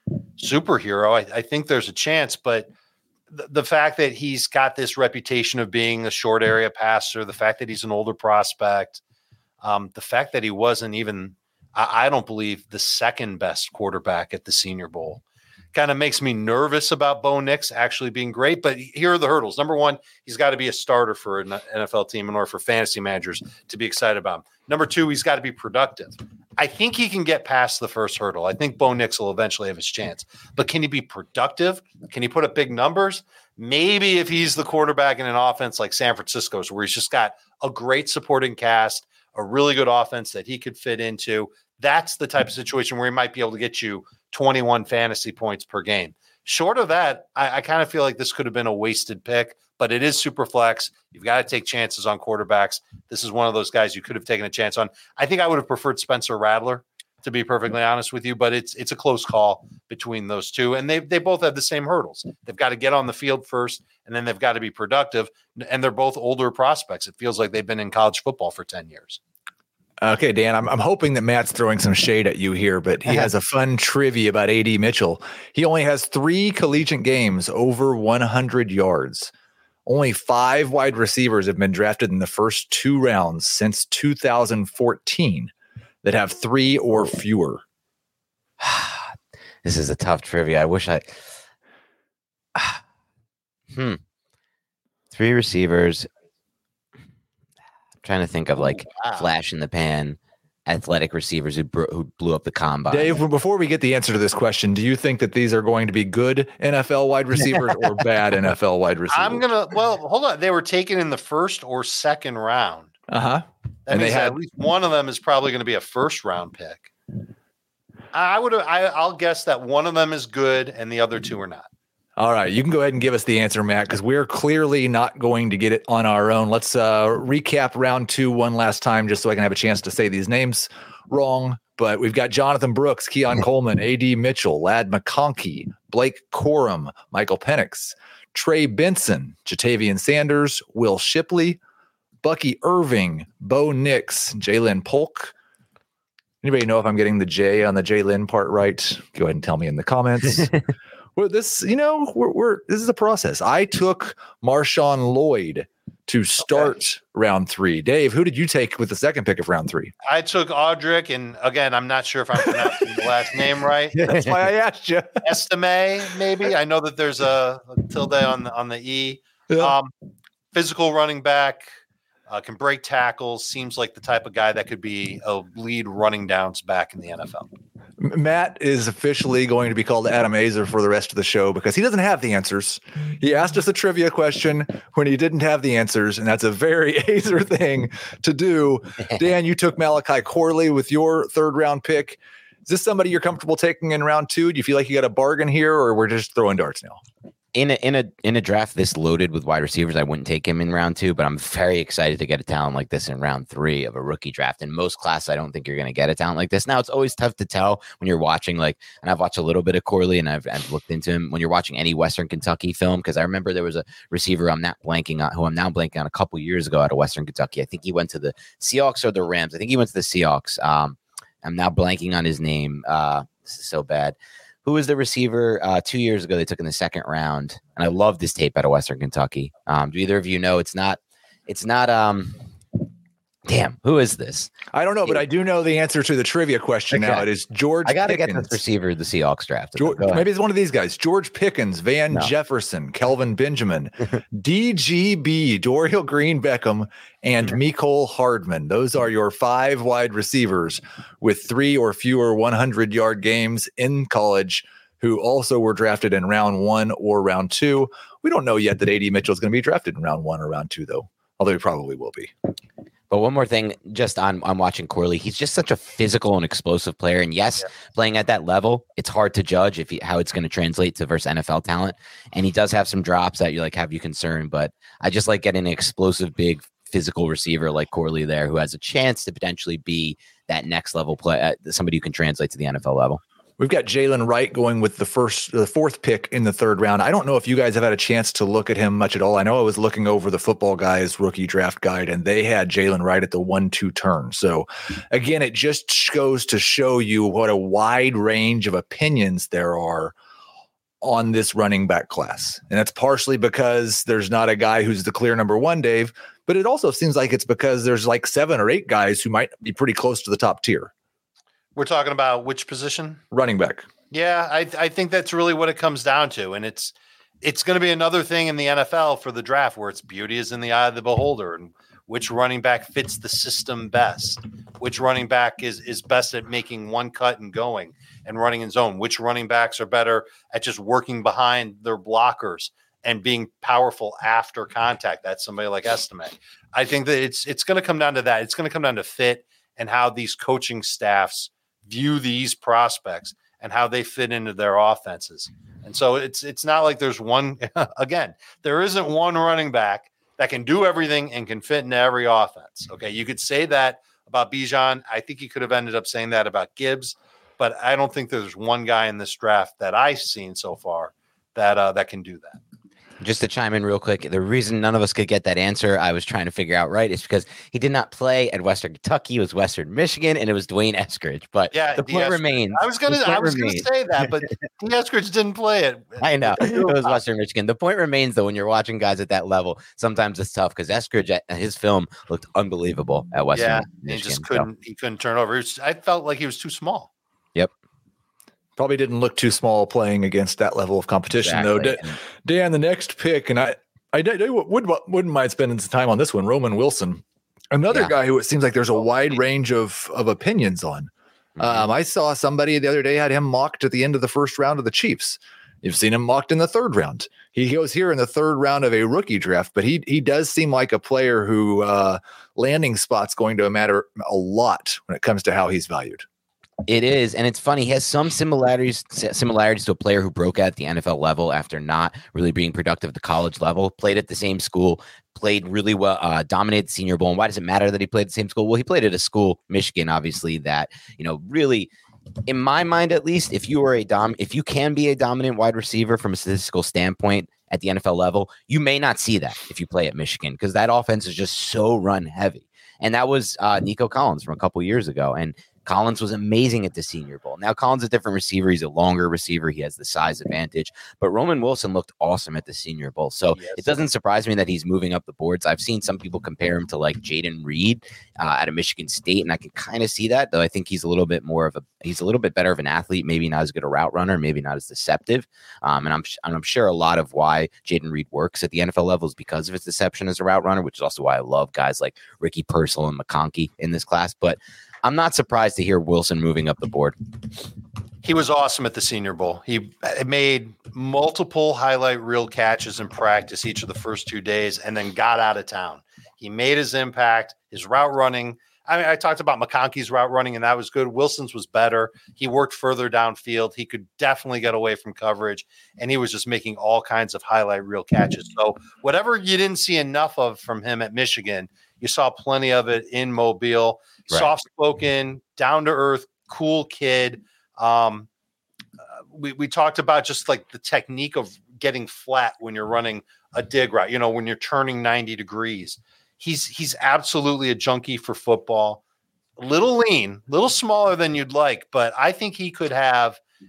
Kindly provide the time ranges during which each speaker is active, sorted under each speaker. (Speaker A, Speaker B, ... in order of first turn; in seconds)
Speaker A: 0.4-2.7, 3.3-9.0, 9.6-15.2, 15.7-69.2, 99.0-99.3, 109.1-112.9, 113.9-116.9, 118.1-121.7, 160.1-164.1, 165.2-169.9, 170.5-171.7, 172.3-177.5, 311.8-313.2, 314.1-362.6, 371.7-377.2, 383.5-387.1, 453.6-454.0, 478.2-508.3, 509.3-519.0, 519.6-523.4
Speaker B: 70.0-79.3, 79.9-85.5, 86.0-87.6, 102.9-109.5, 113.1-114.4, 122.2-141.6, 142.2-145.3, 146.4-150.6, 151.2-159.9, 164.0-165.2, 169.5-169.8, 178.0-197.0, 234.7-238.6, 239.8-262.3, 283.6-300.1, 301.0-310.9, 313.3-313.9, 388.8-416.2
Speaker C: 88.6-89.1, 89.6-91.1, 93.7-94.0, 95.1-96.1, 98.0-103.1, 197.6-232.4, 233.5-234.5, 236.9-237.2, 237.8-240.2, 263.1-283.2, 363.2-373.9, 376.2-384.7, 391.3-392.2, 401.6-401.9, 416.9-431.9, 432.5-477.2